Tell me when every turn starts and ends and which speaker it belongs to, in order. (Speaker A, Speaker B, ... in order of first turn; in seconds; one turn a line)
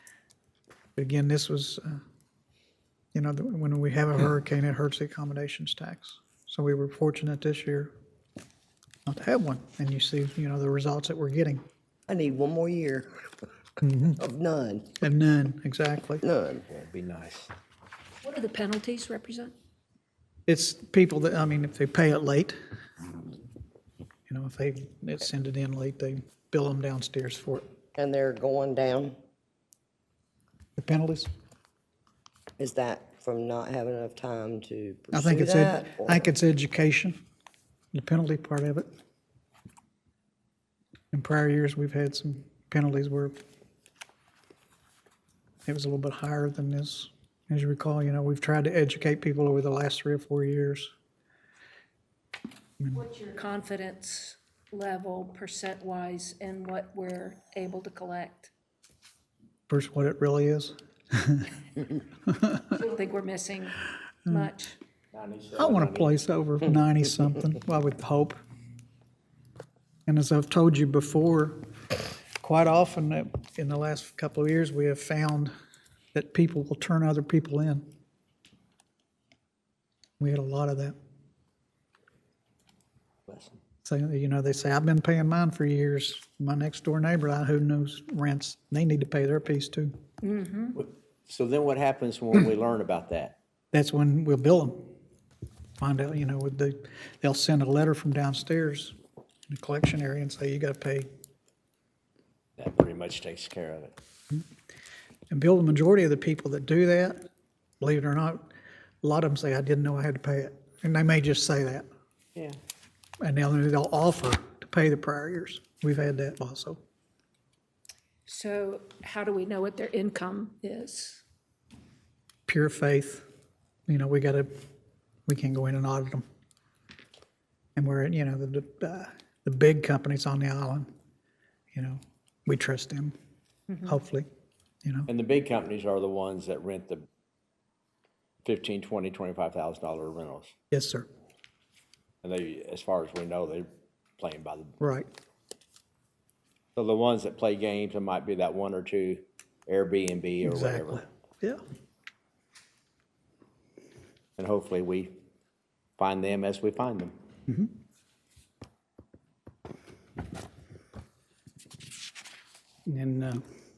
Speaker A: 1.0-2.0
Speaker A: 3.1-7.9
Speaker A: 9.1-11.6
Speaker B: 12.1-13.2
Speaker A: 13.8-14.2
Speaker B: 14.2-14.9
Speaker A: 15.0-16.2
Speaker B: 16.2-16.6
Speaker C: 16.6-17.5
Speaker D: 18.2-19.5
Speaker A: 20.5-22.6
Speaker A: 24.3-27.6
Speaker B: 28.0-29.1
Speaker A: 30.8-31.3
Speaker B: 32.6-36.3
Speaker A: 35.1-37.2
Speaker A: 37.9-38.9
Speaker A: 41.1-43.3
Speaker A: 45.6-50.9
Speaker D: 52.9-58.5
Speaker A: 59.7-61.5
Speaker A: 62.3-62.6
Speaker D: 62.7-64.8
Speaker C: 65.1-66.2
Speaker A: 65.5-68.4
Speaker A: 70.1-71.6
Speaker A: 72.4-75.5
Speaker A: 76.1-77.8
Speaker A: 80.2-80.9
Speaker C: 83.3-83.6
Speaker A: 83.8-89.9
Speaker D: 90.2-90.8
Speaker C: 90.7-93.3
Speaker A: 93.7-94.9
Speaker A: 95.8-98.9
Speaker A: 99.5-101.1
Speaker C: 102.6-103.9
Speaker A: 105.3-107.2
Speaker A: 107.8-108.5
Speaker A: 109.0-111.9
Speaker A: 113.2-116.8
Speaker D: 118.3-121.2
Speaker A: 122.5-123.2
Speaker A: 123.9-124.5
Speaker A: 125.3-126.2
Speaker A: 127.8-130.9
Speaker A: 131.7-133.1
Speaker A: 133.8-134.3
Speaker A: 134.8-135.1
Speaker C: 135.1-137.1
Speaker C: 138.4-140.5
Speaker A: 140.7-141.1
Speaker C: 142.2-144.7
Speaker A: 144.8-145.1
Speaker C: 146.8-151.0
Speaker A: 150.4-151.6
Speaker C: 154.4-155.1
Speaker C: 156.0-157.1
Speaker A: 162.8-163.4